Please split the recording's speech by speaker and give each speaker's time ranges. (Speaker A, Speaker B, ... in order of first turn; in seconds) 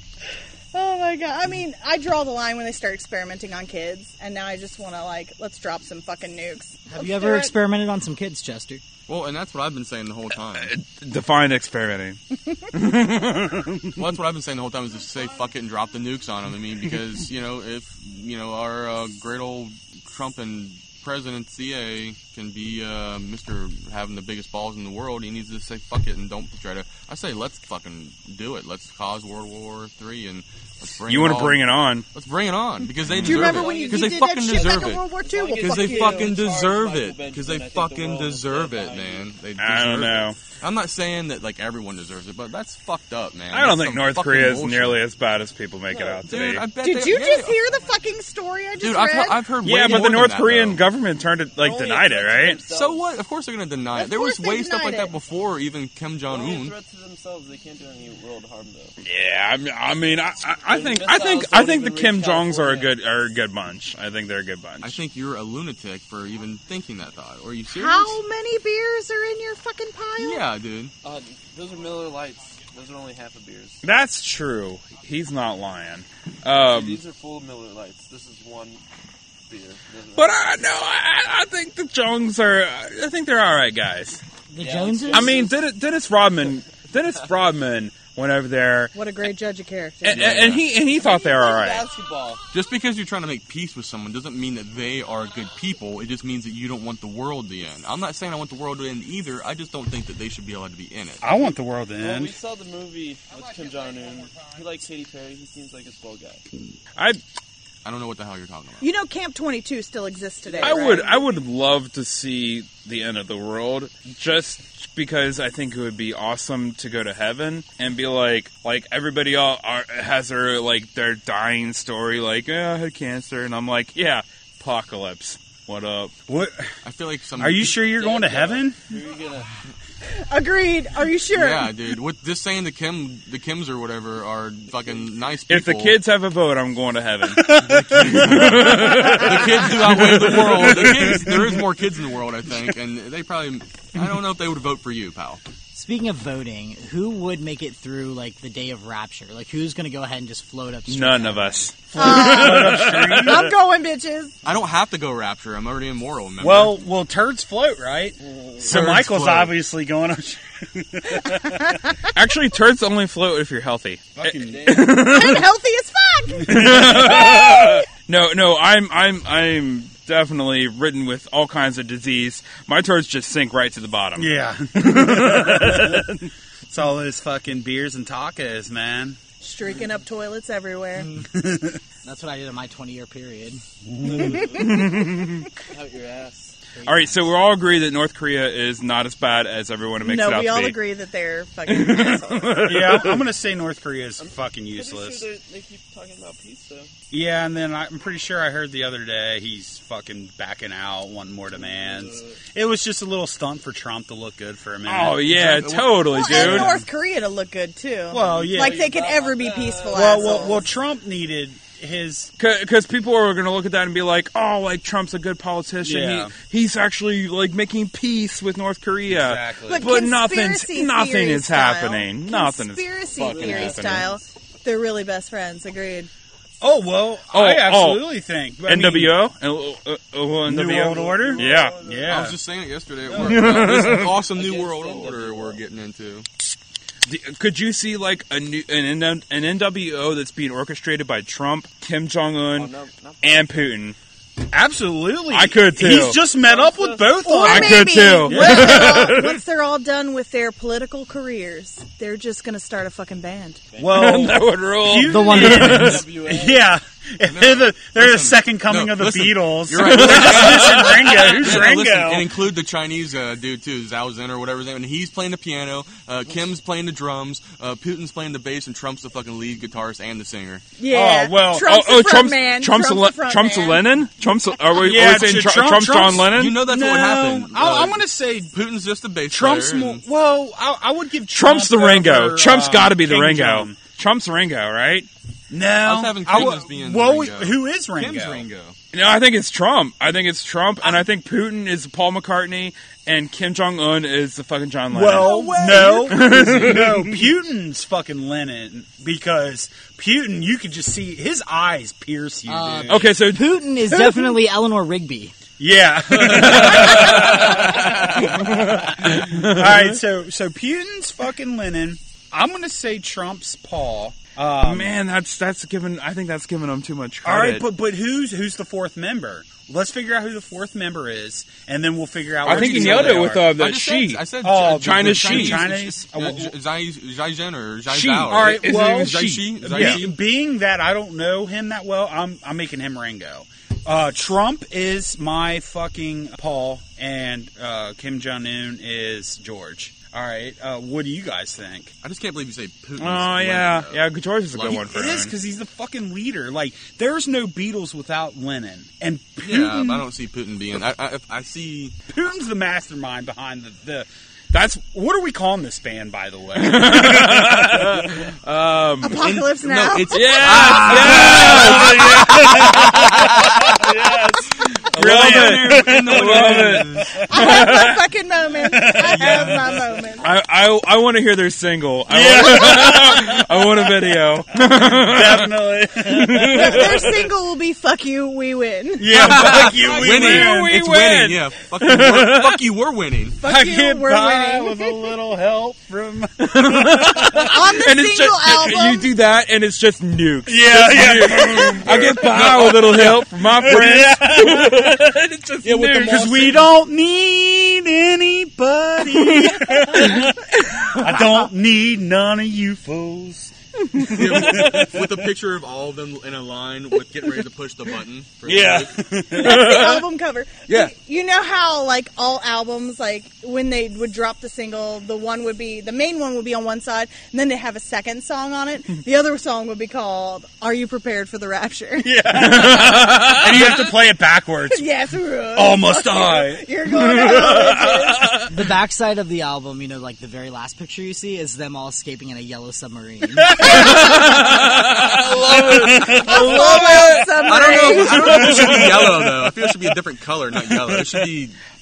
Speaker A: 0.7-7.5, 33.2-36.3, 46.8-49.4, 53.9-55.1, 67.7-70.4, 88.9-90.4, 108.8-111.1, 130.1-131.8, 151.9-154.3, 164.9-167.8, 179.4-181.1, 190.0-192.7, 206.1-210.7, 219.7-226.1, 247.2-253.6, 270.8-273.8, 359.0-361.5, 367.3-370.2, 372.4-373.0, 376.4-379.2, 383.4-385.1, 387.3-389.1, 409.3-422.1, 424.7-428.4, 433.7-434.1, 436.0-438.3
Speaker B: 6.9-8.8, 84.5-85.4, 145.7-151.7, 181.0-181.4, 182.0-183.6, 186.7-187.4, 255.0-256.1, 302.5-305.3, 306.9-307.3, 428.5-434.7
Speaker C: 9.1-10.7, 14.0-35.1, 35.6-45.0, 46.2-47.6, 48.8-50.8, 52.7-56.8, 64.8-68.2, 70.2-70.9, 90.1-90.6, 92.5-101.2, 107.8-108.8, 126.8-128.0, 131.3-136.0, 137.7-145.4, 154.4-156.8, 158.6-159.5, 205.2-206.2, 232.0-236.3, 257.2-270.6, 276.3-280.0, 285.8-288.8, 295.2-296.8, 322.4-330.1, 342.0-344.9, 349.4-351.9, 359.1-363.8, 364.8-367.2, 379.1-383.4, 391.7-393.3, 404.0-408.9, 437.0-441.6
Speaker D: 10.6-14.0, 31.1-32.0, 33.1-33.4, 39.6-40.4, 43.5-46.6, 49.6-52.6, 59.0-65.0, 73.8-77.0, 80.1-84.2, 85.1-88.9, 90.0-91.9, 110.6-126.1, 135.5-139.7, 150.9-153.3, 162.1-165.4, 166.4-176.2, 184.4-185.5, 186.8-190.8, 191.7-193.2, 204.8-206.8, 212.4-224.1, 227.3-228.1, 228.7-231.8, 233.2-234.2, 237.1-243.9, 245.3-246.2, 247.4-249.4, 253.9-256.0, 259.8-261.4, 271.2-276.6, 281.3-285.1, 288.9-297.1, 302.9-303.5, 306.2-310.0, 314.6-317.6, 322.4-325.6, 327.9-330.1, 343.0-345.3, 354.5-354.8, 356.6-359.2, 360.1-363.8, 364.8-368.0, 370.2-375.5, 376.1-376.9, 379.3-382.6, 386.4-396.6, 399.0-401.4, 408.5-410.0, 422.3-423.9, 427.0-428.5, 433.6-439.0
Speaker E: 33.4-39.3, 45.9-46.2, 51.5-53.1, 56.3-59.0, 60.6-63.0, 71.0-73.8, 76.5-78.8, 79.5-80.3, 84.6-85.5, 90.8-92.4, 102.0-106.4, 110.5-111.2, 127.8-129.5, 158.2-158.7, 164.4-165.1, 184.0-184.9, 185.7-186.6, 194.2-196.9, 201.5-202.4, 208.1-210.7, 223.2-224.2, 230.8-232.2, 233.1-235.6, 242.5-243.7, 246.3-247.2, 253.7-254.3, 255.7-256.8, 395.7-396.4
Speaker F: 101.2-102.3, 126.3-126.7, 127.4-128.8, 137.3-141.6, 151.9-153.5, 156.4-161.7, 164.2-164.9, 166.5-167.0, 174.2-176.2, 176.7-179.2, 181.4-181.8, 192.6-195.2, 197.1-205.7, 206.3-206.8, 208.1-208.8, 209.9-212.3, 215.8-216.3, 219.1-220.0, 226.6-229.2, 230.4-232.4, 244.5-249.1, 253.8-262.3, 270.9-271.6, 274.8-278.5, 279.3-283.8, 285.5-288.4, 294.9-303.1, 303.9-304.3, 305.6-314.9, 317.2-323.5, 324.4-326.5, 328.2-341.9, 344.7-350.0, 352.1-354.1, 354.8-358.2, 360.7-367.4, 368.6-369.8, 372.1-374.2, 374.7-377.3, 379.0-380.8, 383.4-387.4, 390.4-395.1, 395.9-405.1, 408.6-409.8, 422.0-424.8, 425.5-426.7, 435.5-436.5, 438.1-439.6, 440.8-441.2